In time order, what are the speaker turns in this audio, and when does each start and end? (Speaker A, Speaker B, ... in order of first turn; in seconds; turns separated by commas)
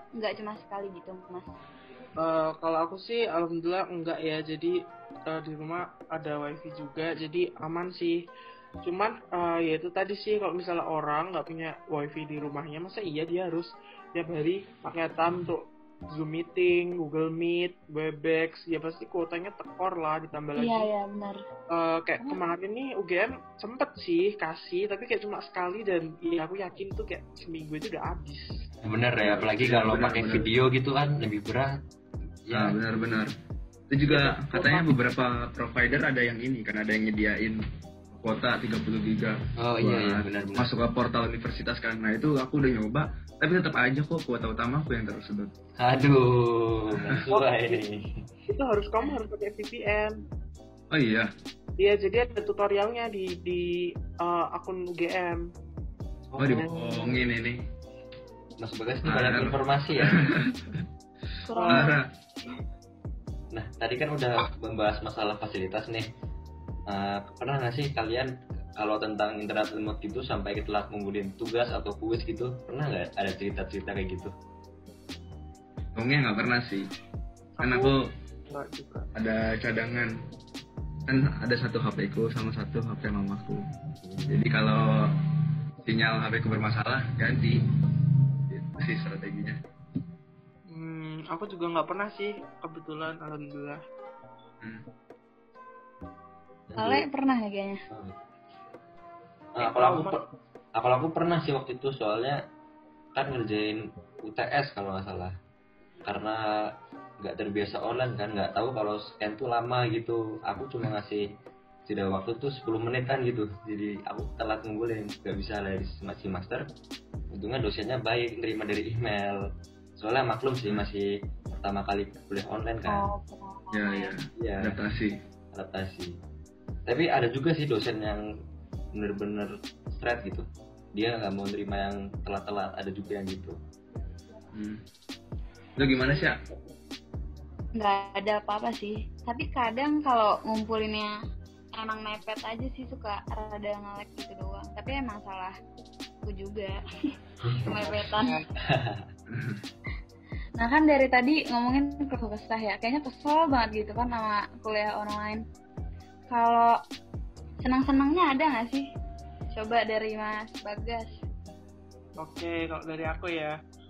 Speaker A: 0.1-1.5, Speaker B: 2.2-8.2, Speaker B: 8.8-20.9, Speaker A: 20.6-21.4, Speaker B: 21.7-28.5, Speaker C: 28.8-31.8, Speaker D: 29.2-30.5, Speaker C: 32.5-32.8, Speaker D: 32.5-33.3, Speaker D: 33.9-37.6, Speaker B: 34.1-34.9, Speaker D: 38.1-45.5, Speaker C: 39.6-40.7, Speaker C: 45.8-48.2, Speaker B: 47.3-47.8, Speaker B: 48.5-50.2, Speaker D: 50.9-51.3, Speaker B: 51.8-55.4, Speaker B: 56.3-57.2, Speaker D: 56.4-57.6, Speaker C: 58.6-60.3, Speaker D: 59.0-60.6, Speaker A: 61.4-62.0, Speaker B: 61.5-61.9, Speaker D: 61.7-62.0, Speaker C: 63.5-66.1, Speaker C: 66.9-74.3, Speaker D: 76.0-76.9, Speaker B: 77.6-77.9, Speaker D: 77.6-78.0, Speaker B: 78.5-79.1, Speaker D: 79.2-80.2, Speaker D: 81.0-83.6, Speaker C: 84.0-84.3, Speaker D: 84.2-85.1, Speaker D: 85.8-87.6, Speaker D: 88.5-89.6, Speaker B: 90.7-93.8, Speaker C: 96.7-97.0, Speaker A: 96.8-97.8, Speaker C: 97.9-98.2, Speaker C: 99.5-100.2, Speaker B: 99.6-100.2, Speaker C: 100.8-102.4, Speaker C: 103.1-105.3, Speaker C: 106.0-111.3, Speaker C: 111.8-116.7, Speaker C: 117.3-119.4, Speaker C: 120.0-123.1, Speaker A: 122.9-124.1, Speaker D: 123.7-125.2, Speaker C: 124.4-124.8, Speaker C: 125.5-126.2, Speaker C: 126.8-128.2, Speaker C: 128.9-133.6, Speaker D: 134.5-134.8, Speaker D: 135.8-136.4, Speaker B: 136.0-136.5, Speaker A: 137.8-141.1, Speaker A: 141.7-145.6, Speaker A: 146.2-146.8, Speaker C: 147.4-147.9, Speaker A: 147.6-148.4, Speaker B: 147.8-148.4, Speaker C: 148.6-149.0, Speaker D: 149.3-149.6, Speaker A: 150.6-155.4, Speaker A: 156.3-156.7, Speaker A: 157.6-158.8, Speaker A: 159.5-161.1, Speaker B: 162.2-163.5